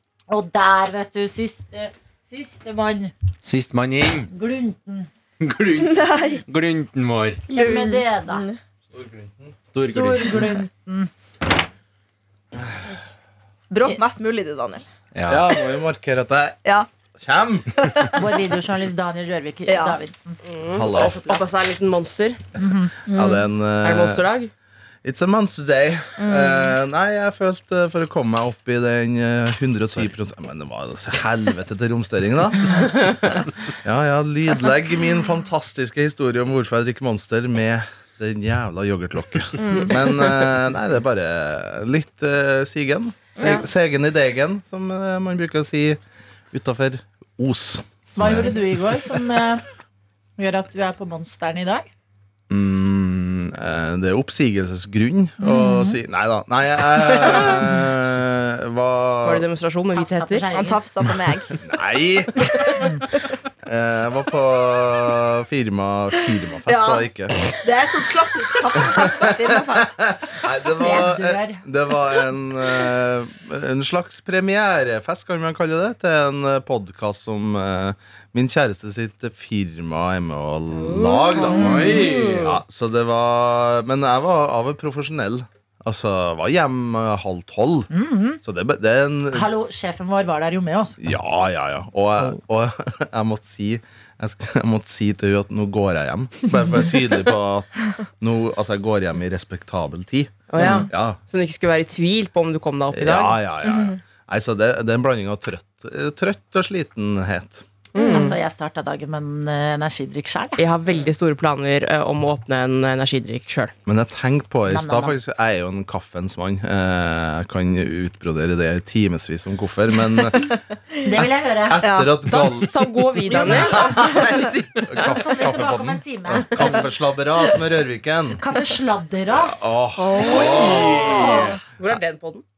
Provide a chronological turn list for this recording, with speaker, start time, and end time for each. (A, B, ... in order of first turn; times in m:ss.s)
0:00.3-0:03.1 A
0:03.4-0:04.3 B
0:04.3-0:05.1 A
0:05.4-0:07.4 B
0:05.8-0:06.4 C
0:07.5-0:08.4 A
0:07.5-0:08.6 C
0:08.9-0:09.6 D
0:09.7-0:10.6 B
0:09.8-0:11.1 A
0:13.7-0:14.8 C
0:15.1-0:15.5 B
0:15.3-0:16.6 D
0:17.2-0:17.8 D
0:17.8-0:18.1 C
0:18.2-0:20.4 A
0:19.7-0:20.0 C
0:20.5-0:22.4 E
0:20.7-0:21.3 D
0:22.6-0:22.9 A
0:23.1-0:23.4 C
0:23.1-0:24.2 D
0:23.8-0:24.5 E
0:25.0-0:33.1 D
0:26.2-0:26.8 C
0:33.8-0:46.0 D
0:39.6-0:40.0 C
0:43.4-0:43.6 C
0:46.5-0:48.7 D
0:48.2-0:49.6 A
0:50.4-0:51.9 A
0:52.5-0:59.5 D
0:55.4-0:56.0 A
0:59.2-1:00.4 E
0:59.9-1:00.8 A
1:00.5-1:01.6 C
1:01.6-1:02.5 D
1:03.6-1:07.4 D
1:06.7-1:07.1 C
1:07.6-1:10.1 C
1:08.8-1:27.9 D
1:10.8-1:11.6 A
1:20.7-1:22.5 E
1:21.4-1:22.0 A
1:21.5-1:22.5 B
1:27.9-1:28.4 A
1:28.4-1:29.5 D
1:29.3-1:31.0 A
1:31.0-1:41.2 D
1:40.5-1:43.4 E
1:40.6-1:40.9 C
1:42.9-1:47.6 D
1:43.6-1:44.0 C
1:47.9-1:48.3 E
1:48.0-1:48.4 C
1:48.0-1:50.6 A
1:50.6-1:53.7 E
1:53.9-2:00.6 D
1:54.7-1:55.1 A
2:01.0-2:01.8 A
2:01.2-2:02.7 D
2:01.8-2:02.1 C
2:02.3-2:05.0 E
2:03.3-2:08.4 D
2:03.3-2:04.2 A
2:05.0-2:06.8 A
2:08.4-2:09.7 A
2:09.3-2:11.4 D
2:10.0-2:11.5 C
2:10.3-2:12.4 E
2:10.8-2:11.3 B